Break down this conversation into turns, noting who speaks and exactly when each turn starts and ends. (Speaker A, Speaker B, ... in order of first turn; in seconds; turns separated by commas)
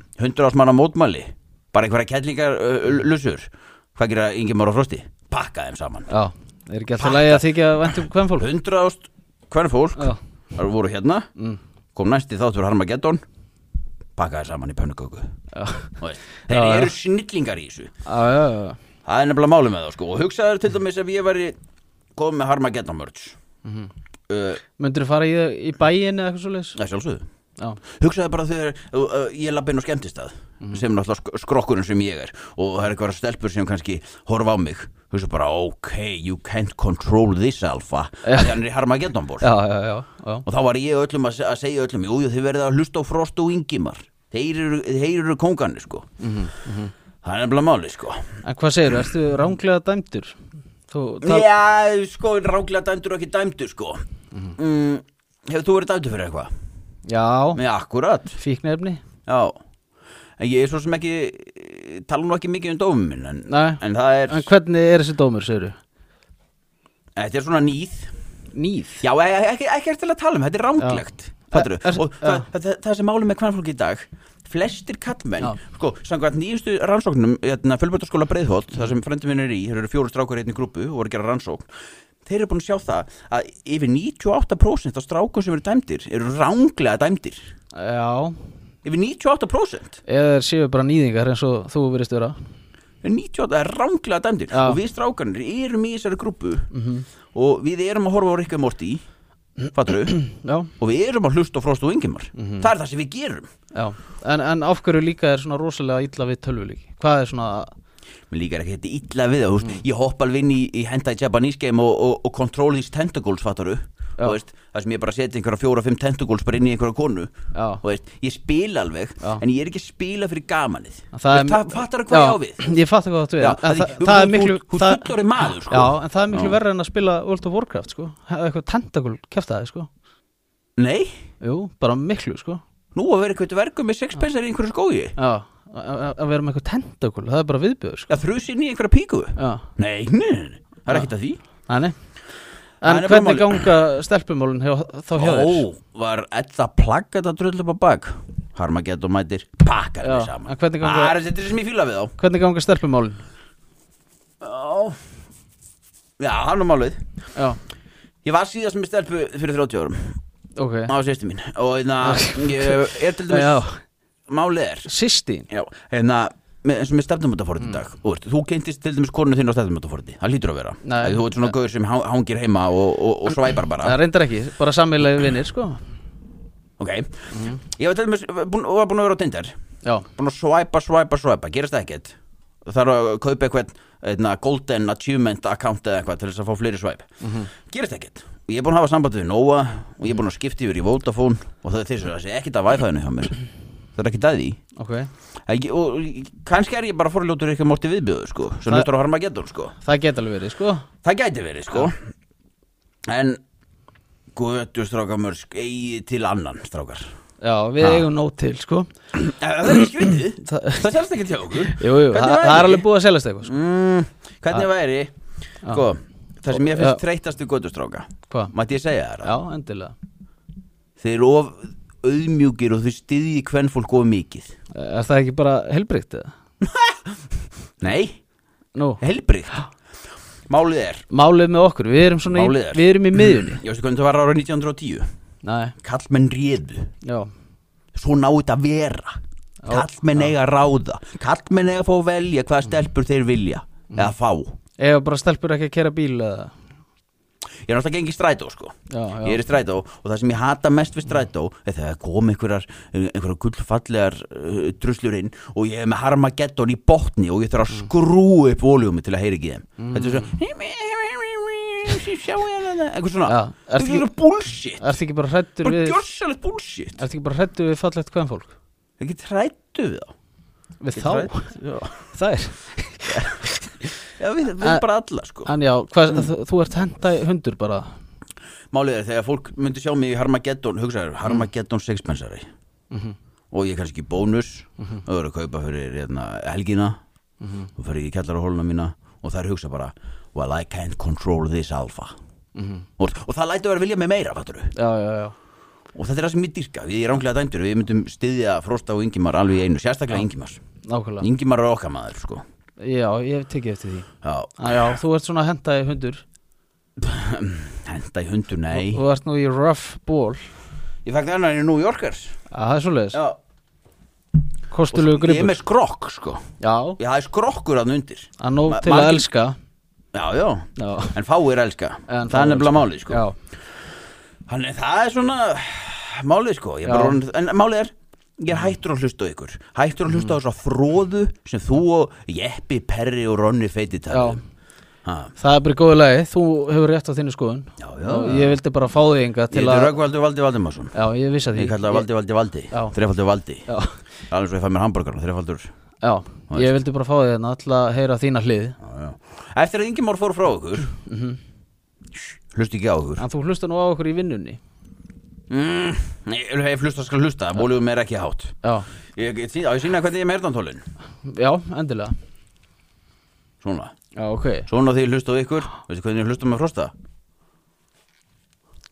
Speaker A: 0.2-6.1, Speaker B: 6.1-8.5, Speaker A: 7.0-11.3, Speaker A: 11.9-13.2, Speaker A: 14.2-15.3, Speaker B: 15.5-16.9, Speaker A: 16.0-17.9, Speaker B: 18.0-18.8, Speaker A: 19.1-21.6, Speaker A: 22.1-23.4, Speaker B: 23.6-23.9, Speaker A: 24.3-24.6, Speaker B: 24.8-26.8, Speaker A: 26.8-27.2, Speaker A: 28.0-39.5, Speaker B: 38.2-38.5, Speaker B: 39.4-40.4, Speaker A: 40.5-46.0, Speaker B: 46.2-46.9, Speaker A: 47.2-48.2, Speaker B: 48.4-50.4, Speaker B: 50.9-51.5, Speaker A: 51.2-54.0, Speaker A: 54.5-56.5, Speaker B: 57.0-57.6, Speaker A: 57.5-58.4, Speaker B: 58.4-59.0, Speaker A: 59.3-59.6, Speaker A: 60.4-64.5, Speaker B: 63.5-65.8, Speaker A: 67.2-68.1, Speaker B: 68.5-69.0, Speaker A: 69.0-81.7, Speaker B: 70.8-72.4, Speaker A: 82.2-87.4, Speaker B: 87.7-88.4, Speaker A: 88.8-90.0, Speaker B: 90.0-92.4, Speaker A: 93.0-96.7, Speaker B: 96.7-97.1, Speaker A: 97.3-99.0, Speaker A: 99.7-103.5, Speaker B: 100.2-100.7, Speaker B: 102.3-102.7, Speaker B: 103.7-107.7, Speaker A: 108.3-122.6, Speaker B: 117.5-117.8, Speaker B: 121.1-125.1, Speaker A: 123.4-126.6, Speaker B: 125.6-129.9, Speaker A: 130.8-131.2, Speaker B: 131.4-132.6, Speaker A: 132.9-135.1, Speaker B: 135.2-138.1, Speaker A: 138.1-141.4, Speaker B: 139.4-139.7, Speaker B: 141.7-141.9, Speaker B: 142.8-145.7, Speaker A: 142.8-143.7, Speaker A: 145.2-152.1, Speaker B: 150.0-151.2, Speaker B: 152.2-153.2, Speaker A: 154.4-155.0, Speaker A: 156.2-157.0, Speaker A: 158.2-160.2, Speaker B: 160.6-160.9, Speaker A: 160.9-163.6, Speaker B: 162.0-163.8, Speaker A: 164.3-164.9, Speaker B: 164.8-165.5, Speaker A: 165.5-174.0, Speaker B: 170.8-171.5, Speaker B: 173.8-175.8, Speaker A: 176.8-179.5, Speaker B: 177.3-177.6, Speaker A: 180.1-193.4, Speaker B: 187.2-187.5, Speaker A: 193.9-194.6, Speaker B: 194.8-195.1, Speaker A: 195.5-199.7, Speaker B: 199.8-200.8, Speaker A: 201.0-202.0, Speaker A: 203.1-203.4, Speaker A: 204.3-207.0, Speaker B: 207.4-208.9, Speaker A: 207.8-208.1, Speaker A: 209.1-212.8, Speaker B: 210.5-210.8, Speaker B: 211.7-213.5, Speaker A: 213.4-215.1, Speaker A: 215.7-219.3, Speaker B: 216.5-217.0, Speaker B: 219.2-219.9, Speaker A: 221.0-224.5, Speaker B: 224.7-226.3, Speaker A: 226.6-227.2, Speaker A: 227.8-228.2, Speaker B: 228.7-229.0, Speaker A: 229.0-229.6, Speaker A: 230.5-231.0, Speaker B: 231.1-233.6, Speaker A: 232.3-235.1, Speaker B: 235.4-235.7, Speaker A: 235.8-236.9, Speaker B: 237.0-237.3, Speaker A: 237.9-239.1, Speaker B: 239.6-240.2, Speaker A: 239.7-244.5, Speaker B: 244.8-246.5, Speaker A: 247.7-264.9, Speaker B: 248.9-249.4, Speaker B: 259.8-260.3, Speaker B: 263.2-264.1, Speaker B: 264.8-266.0, Speaker A: 265.6-267.0, Speaker B: 267.0-268.5, Speaker A: 269.0-270.1, Speaker B: 270.8-271.6, Speaker A: 270.9-272.0, Speaker B: 272.1-273.9, Speaker A: 274.2-275.5, Speaker B: 275.4-277.9, Speaker A: 278.7-282.4, Speaker B: 282.9-283.1, Speaker A: 283.5-287.0, Speaker A: 287.8-292.1, Speaker B: 292.6-292.9, Speaker A: 293.0-294.7, Speaker B: 294.7-295.3, Speaker A: 295.9-300.6, Speaker B: 300.8-301.3, Speaker A: 301.2-302.4, Speaker B: 302.8-306.2, Speaker A: 304.2-305.0, Speaker A: 307.0-309.0, Speaker B: 308.7-310.4, Speaker A: 311.0-312.4, Speaker B: 312.5-313.2, Speaker A: 313.1-313.4, Speaker B: 314.7-315.6, Speaker A: 314.9-316.4, Speaker B: 316.6-317.0, Speaker A: 317.0-319.2, Speaker B: 318.4-319.6, Speaker A: 320.1-323.2, Speaker B: 320.8-321.2, Speaker B: 322.1-323.4, Speaker A: 324.5-334.4, Speaker B: 326.9-327.2, Speaker B: 334.1-334.4, Speaker A: 335.0-335.3, Speaker B: 335.4-340.0, Speaker A: 337.8-338.6, Speaker A: 339.5-340.9, Speaker B: 340.9-342.1, Speaker A: 341.5-343.7, Speaker B: 343.7-344.0, Speaker A: 344.3-345.7, Speaker B: 346.0-348.8, Speaker A: 346.5-346.8, Speaker A: 348.8-350.9, Speaker B: 351.1-351.4, Speaker A: 352.1-353.2, Speaker B: 353.2-354.6, Speaker A: 355.5-358.6, Speaker A: 359.1-360.8, Speaker B: 361.2-362.1, Speaker A: 363.6-363.9, Speaker B: 364.1-364.7, Speaker A: 364.7-366.9